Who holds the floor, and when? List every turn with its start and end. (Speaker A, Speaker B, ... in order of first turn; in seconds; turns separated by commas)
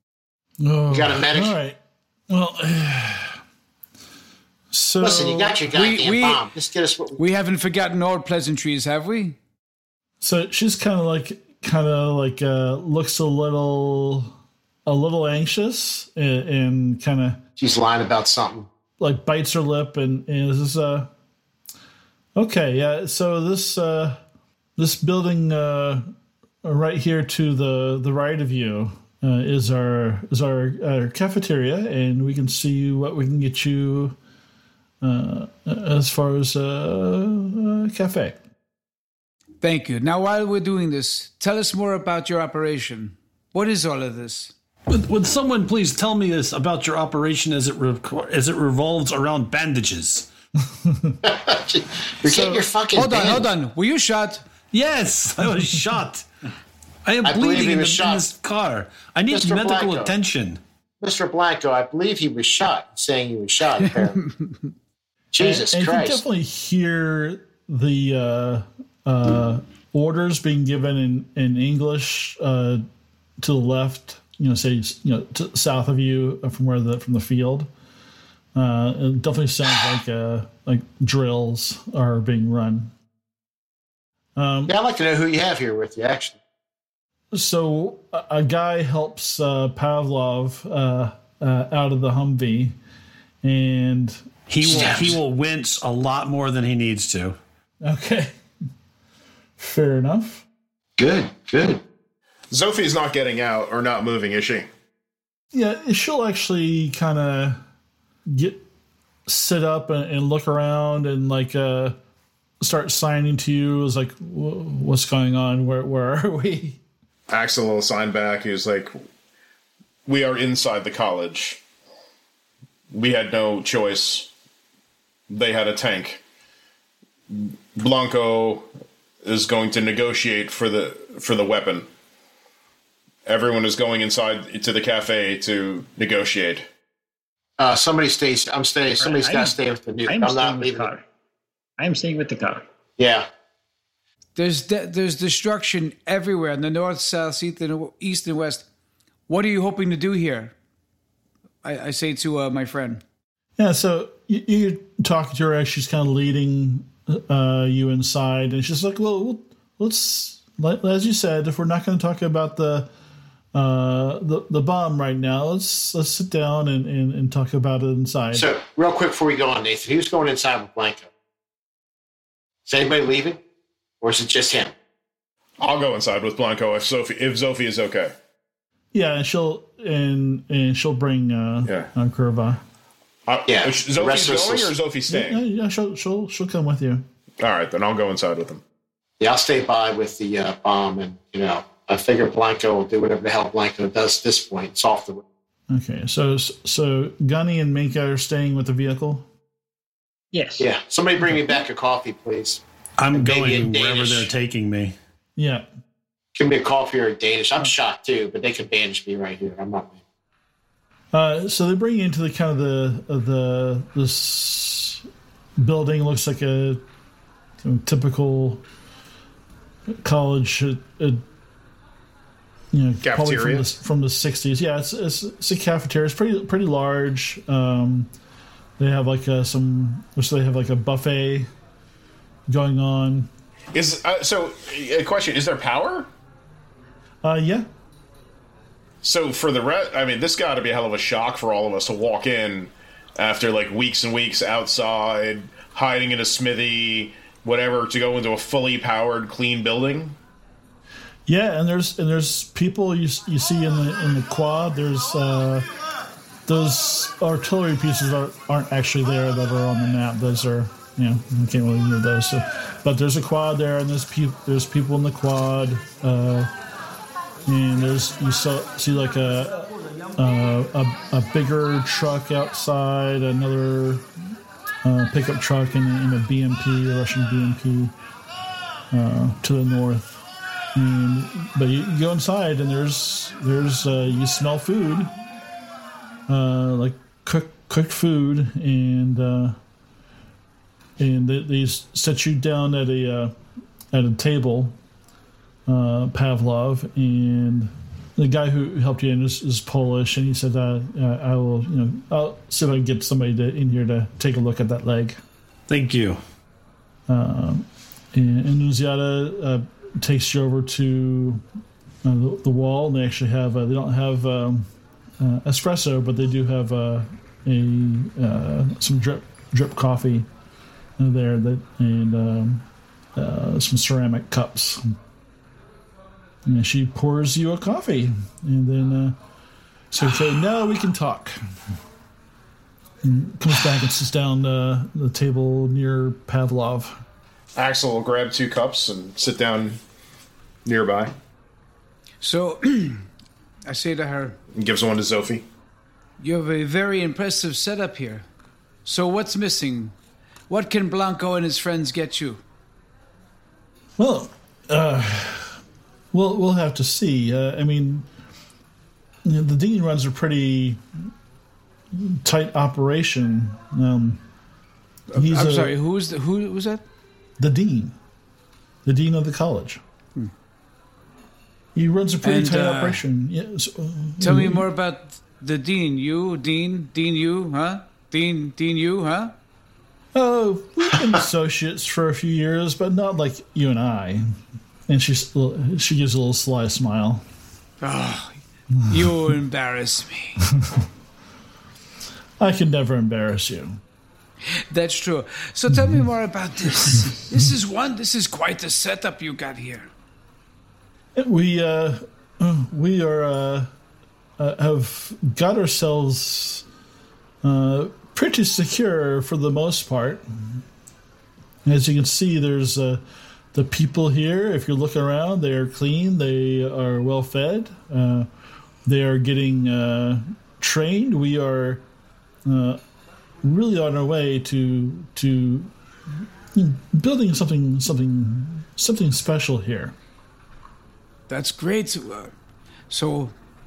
Speaker A: 0.6-1.8, Speaker B: 0.9-1.5, Speaker A: 2.3-3.4, Speaker A: 4.7-5.5, Speaker B: 5.0-7.2, Speaker C: 5.7-6.4, Speaker C: 7.2-9.3, Speaker A: 10.2-14.3, Speaker A: 14.8-17.4, Speaker B: 17.6-18.7, Speaker A: 19.0-21.1, Speaker A: 22.4-24.2, Speaker A: 24.8-26.0, Speaker A: 26.6-34.2, Speaker A: 35.0-38.4, Speaker C: 39.6-44.5, Speaker D: 44.9-50.3, Speaker A: 50.7-51.2, Speaker B: 51.2-53.5, Speaker A: 52.2-52.6, Speaker C: 52.9-54.4, Speaker D: 54.7-56.3, Speaker D: 57.0-60.6, Speaker B: 57.2-58.3, Speaker B: 59.3-60.1, Speaker B: 61.0-64.2, Speaker C: 63.8-64.7, Speaker B: 65.3-66.2, Speaker A: 65.4-72.8, Speaker A: 73.4-77.7, Speaker A: 78.5-82.9, Speaker A: 84.4-84.7, Speaker B: 84.7-86.3, Speaker A: 87.3-92.8, Speaker A: 93.4-95.1, Speaker D: 94.5-97.4, Speaker B: 94.6-95.2, Speaker A: 97.8-98.3, Speaker A: 99.6-100.4, Speaker B: 101.0-101.8, Speaker E: 102.5-104.7, Speaker A: 105.5-107.6, Speaker A: 108.3-108.6, Speaker A: 109.3-112.0, Speaker A: 112.6-116.8, Speaker E: 117.3-118.9, Speaker E: 120.0-121.6, Speaker E: 122.9-124.3, Speaker E: 125.3-126.2, Speaker E: 127.3-128.7, Speaker E: 129.2-131.9, Speaker E: 133.2-136.6, Speaker B: 137.6-140.9, Speaker F: 139.0-141.0, Speaker F: 141.8-142.7, Speaker B: 143.0-143.3, Speaker C: 144.3-148.7, Speaker C: 149.3-150.5, Speaker C: 151.6-153.0, Speaker A: 153.6-162.9, Speaker A: 163.5-168.5, Speaker B: 168.3-171.1, Speaker B: 172.7-173.4, Speaker B: 174.0-174.7, Speaker E: 175.6-178.1, Speaker A: 178.9-182.6, Speaker E: 183.3-185.4, Speaker B: 183.5-184.7, Speaker A: 185.1-187.0, Speaker E: 187.4-188.6, Speaker B: 189.2-195.2, Speaker A: 195.7-199.2, Speaker F: 200.3-200.7, Speaker B: 200.6-202.6, Speaker D: 203.0-204.9, Speaker B: 203.1-204.3, Speaker A: 205.3-205.7, Speaker B: 206.3-209.9, Speaker A: 211.1-215.0, Speaker A: 215.6-216.8, Speaker A: 217.6-218.6, Speaker A: 220.0-221.2, Speaker A: 222.7-228.1, Speaker E: 223.0-223.7, Speaker A: 228.8-231.5, Speaker A: 232.5-233.3, Speaker E: 233.7-236.1, Speaker A: 237.2-237.7, Speaker E: 239.0-250.2, Speaker A: 251.3-255.7, Speaker A: 256.5-266.5, Speaker A: 267.4-274.1, Speaker A: 274.8-277.9, Speaker A: 278.9-280.2, Speaker A: 280.7-285.1, Speaker A: 286.3-289.6, Speaker A: 291.0-293.3, Speaker A: 293.9-294.7, Speaker A: 295.7-305.2, Speaker D: 305.7-306.2, Speaker A: 307.1-311.4, Speaker A: 312.0-314.7, Speaker A: 315.2-320.3, Speaker A: 321.0-324.8, Speaker A: 326.4-329.2, Speaker A: 329.9-331.4, Speaker A: 333.0-337.0, Speaker E: 337.6-339.8, Speaker E: 340.6-341.1, Speaker C: 342.2-343.1, Speaker C: 343.6-344.4, Speaker E: 344.5-345.4, Speaker C: 346.2-348.3, Speaker C: 348.8-349.9, Speaker C: 350.5-352.4, Speaker A: 354.0-358.1, Speaker A: 359.2-360.8, Speaker A: 361.9-364.2, Speaker C: 365.1-366.8, Speaker A: 365.1-365.7, Speaker A: 367.4-367.9, Speaker A: 368.8-369.8, Speaker A: 371.7-374.7, Speaker C: 372.2-373.0, Speaker C: 374.2-379.3, Speaker A: 380.1-384.4, Speaker A: 384.9-387.2, Speaker C: 387.8-390.4, Speaker A: 390.5-390.9, Speaker A: 392.4-393.8, Speaker C: 394.6-399.9, Speaker A: 395.7-396.0, Speaker A: 401.1-403.7, Speaker A: 404.4-406.6, Speaker A: 407.4-410.6, Speaker A: 411.6-413.0, Speaker A: 413.5-418.3, Speaker A: 418.8-421.8, Speaker A: 422.4-422.8, Speaker A: 423.4-429.9, Speaker C: 431.3-432.3, Speaker C: 432.9-433.3